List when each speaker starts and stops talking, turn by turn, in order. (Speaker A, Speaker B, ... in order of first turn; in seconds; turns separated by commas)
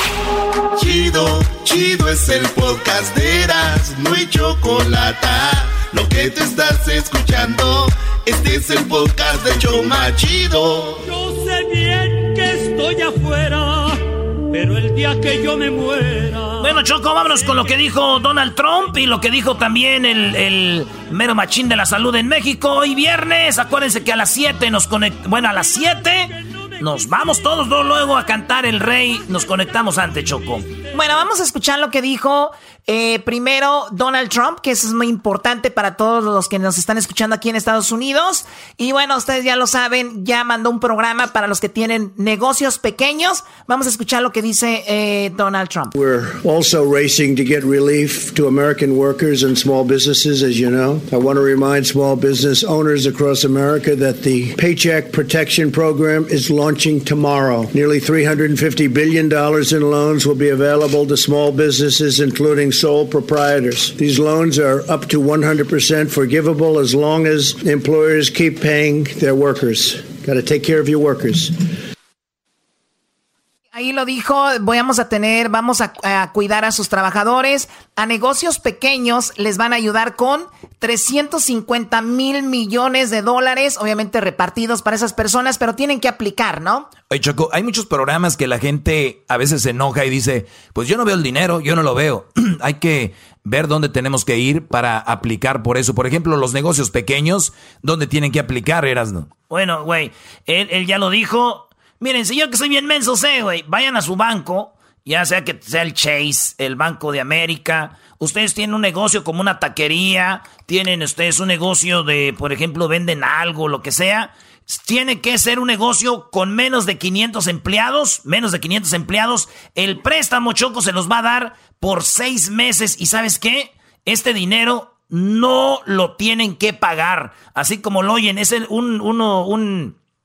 Speaker A: 0.7-11.0, Speaker B: 11.0-17.8, Speaker C: 16.6-30.7, Speaker D: 30.9-46.0, Speaker E: 46.0-71.6, Speaker D: 73.7-86.9, Speaker F: 87.1-99.3, Speaker C: 99.5-129.9